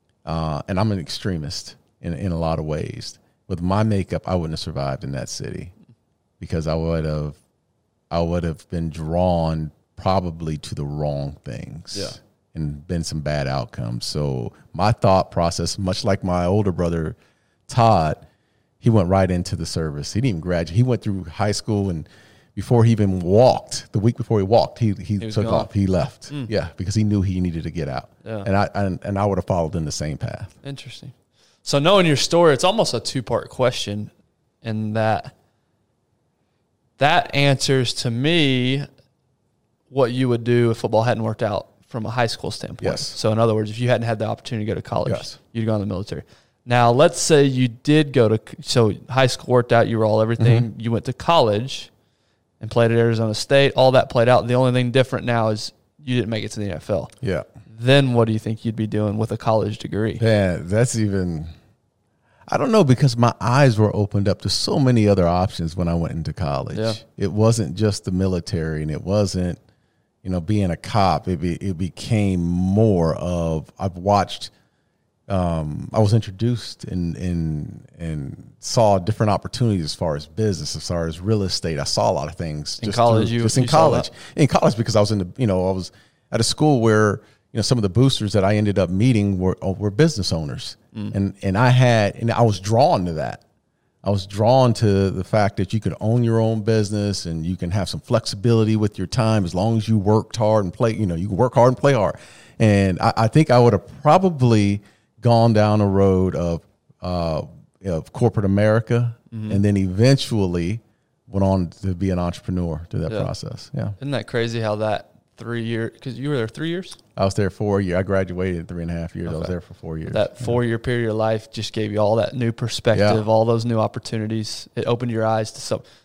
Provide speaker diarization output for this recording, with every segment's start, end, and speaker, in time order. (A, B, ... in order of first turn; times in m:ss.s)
0:00.2-0:05.7 A
0:06.4-0:07.4 A
0:08.1-0:17.2 A
0:17.7-0:18.2 A
0:18.8-0:30.5 A
0:25.2-0:25.7 B
0:30.6-0:34.1 B
0:34.6-0:35.3 B
0:37.0-0:38.9 B
0:39.9-0:51.9 B
0:42.8-0:43.2 A
0:45.0-0:45.4 A
0:50.4-0:50.6 A
0:52.6-0:57.1 B
0:57.7-1:00.2 B
1:00.2-1:01.5 A
1:02.5-1:09.6 A
1:06.7-1:07.0 B
1:10.2-1:14.5 A
1:15.3-1:33.4 A
1:22.8-1:24.1 B
1:34.0-1:54.0 A
1:49.3-1:49.6 B
1:54.0-1:57.0 B
1:57.2-2:00.6 A
1:59.2-1:59.5 B
2:00.1-2:05.8 B
2:02.9-2:03.2 A